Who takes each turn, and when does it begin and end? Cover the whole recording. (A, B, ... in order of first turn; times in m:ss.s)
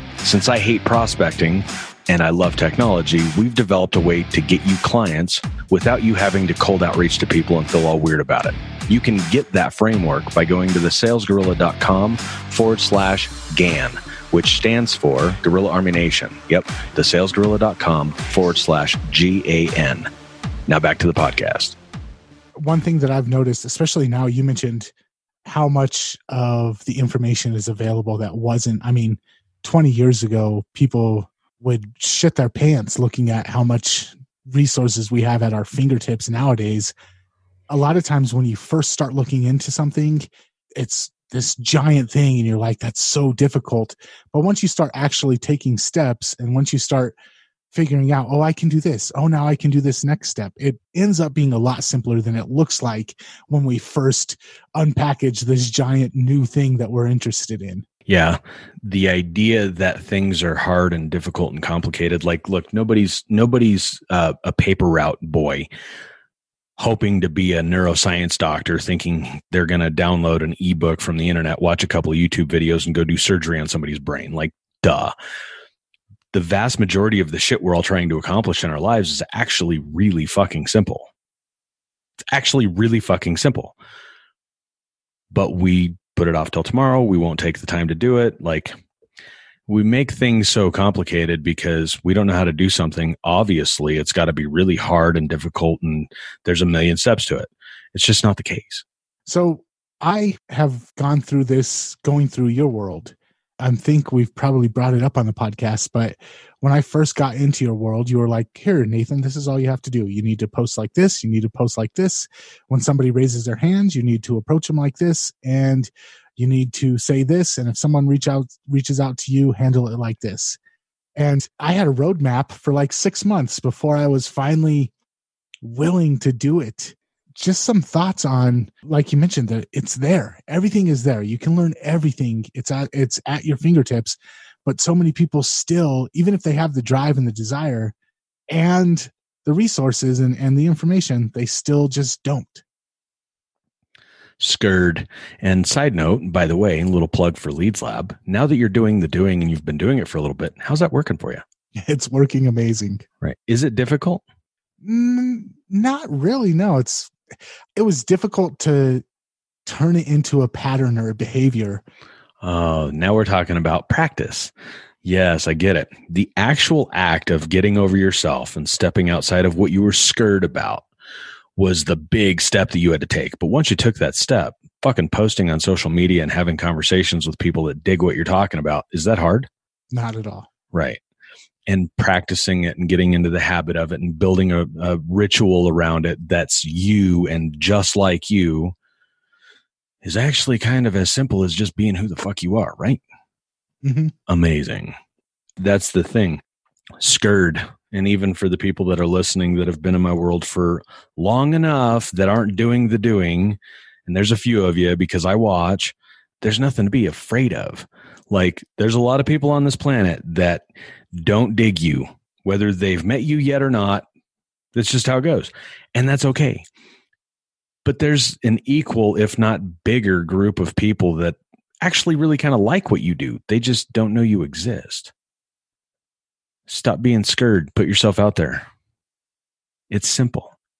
0:00.2-0:20.1 A
0:20.7-0:21.8 A
0:22.6-0:24.9 B
0:25.4-0:36.9 B
0:37.7-0:47.2 B
0:47.7-0:57.8 B
0:58.1-1:05.7 A
1:06.8-1:15.1 A
1:16.3-1:21.1 A
1:22.3-1:23.7 A
1:25.3-1:28.7 A
1:29.7-1:38.8 A
1:39.3-2:00.6 B
2:01.2-2:04.9 B
2:05.6-2:17.9 B
2:18.5-2:22.6 B
2:24.4-2:31.4 A
2:31.7-2:33.0 B
2:33.2-2:34.2 A
2:34.8-2:37.1 B
2:37.8-2:39.0 B
2:39.6-2:41.8 B
2:42.4-2:44.5 A
2:45.0-2:50.9 A
2:51.6-2:59.5 A
2:59.9-3:00.5 B
3:00.7-3:01.0 A
3:01.7-3:08.7 A
3:10.0-3:13.0 A
3:13.8-3:14.1 B
3:14.3-3:14.9 A
3:15.6-3:16.4 A
3:17.0-3:34.0 A
3:34.7-3:36.6 A
3:37.8-3:45.1 A
3:46.7-3:48.6 A
3:49.9-3:50.5 A